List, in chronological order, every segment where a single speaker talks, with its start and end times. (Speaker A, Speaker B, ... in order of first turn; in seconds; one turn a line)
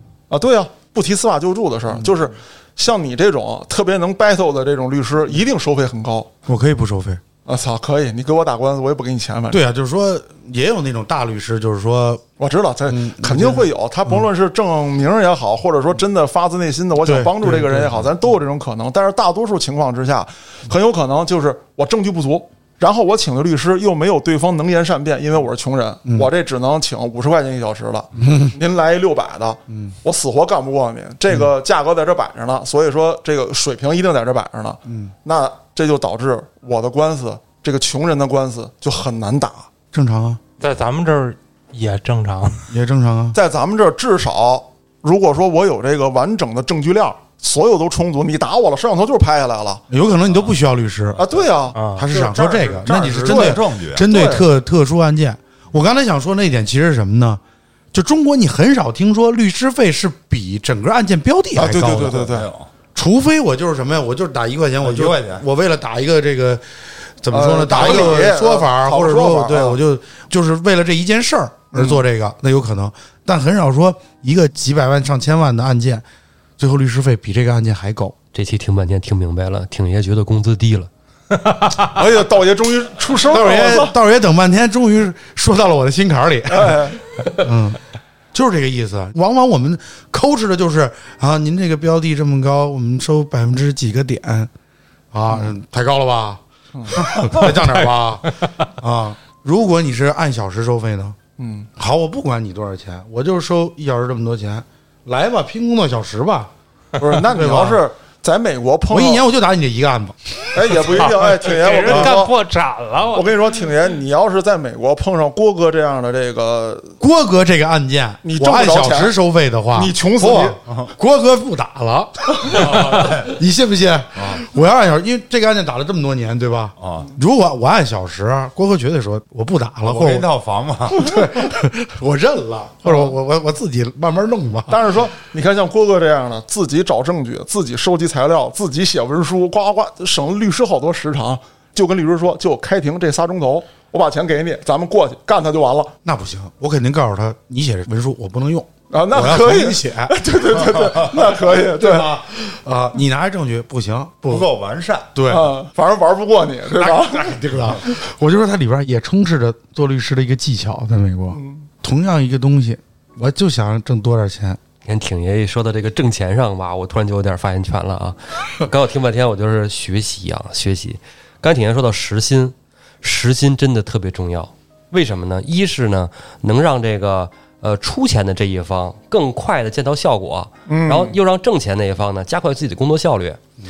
Speaker A: 0.3-6.3
Speaker B: 6.5-7.2
Speaker A: 7.5-9.6
Speaker B: 9.5-12.2
Speaker A: 12.4-39.7
Speaker B: 12.9-14.2
Speaker B: 17.0-18.0
Speaker B: 28.2-28.6
Speaker B: 34.9-35.1
Speaker B: 39.9-40.4
Speaker C: 40.6-42.7
Speaker B: 42.7-43.4
Speaker A: 43.3-49.8
Speaker B: 49.9-51.2
Speaker D: 50.3-50.5
Speaker A: 51.2-51.8
Speaker C: 51.7-52.0
Speaker B: 51.9-57.4
Speaker D: 52.1-54.1
Speaker A: 53.2-54.5
Speaker B: 57.9-62.3
Speaker A: 61.6-62.5
Speaker D: 61.9-62.7
Speaker B: 63.0-66.6
Speaker D: 64.8-65.4
Speaker B: 67.2-76.0
Speaker A: 67.3-69.8
Speaker A: 71.7-72.0
Speaker B: 76.6-78.2
Speaker E: 78.3-80.9
Speaker C: 81.4-81.8
Speaker A: 81.9-83.9
Speaker B: 83.3-87.8
Speaker A: 86.5-87.0
Speaker B: 88.3-94.5
Speaker B: 95.1-101.2
Speaker C: 97.5-97.8
Speaker A: 101.4-101.7
Speaker B: 101.8-106.5
Speaker A: 107.0-109.2
Speaker B: 107.3-107.8
Speaker B: 108.9-110.5
Speaker A: 110.5-112.3
Speaker C: 110.7-113.4
Speaker B: 111.9-112.2
Speaker A: 113.1-117.0
Speaker B: 117.0-130.3
Speaker A: 118.2-119.2
Speaker A: 119.7-120.6
Speaker D: 120.7-120.9
Speaker D: 122.5-123.3
Speaker D: 124.2-124.4
Speaker D: 126.8-127.1
Speaker D: 129.8-131.4
Speaker B: 130.9-134.8
Speaker A: 132.9-133.1
Speaker A: 134.7-145.9
Speaker B: 146.0-150.2
Speaker A: 148.9-152.1
Speaker D: 150.7-151.3
Speaker B: 151.7-154.5
Speaker D: 154.3-155.1
Speaker B: 155.1-155.5
Speaker A: 155.3-157.4
Speaker B: 156.8-164.6
Speaker A: 161.3-161.7
Speaker E: 164.8-183.4
Speaker A: 180.7-181.2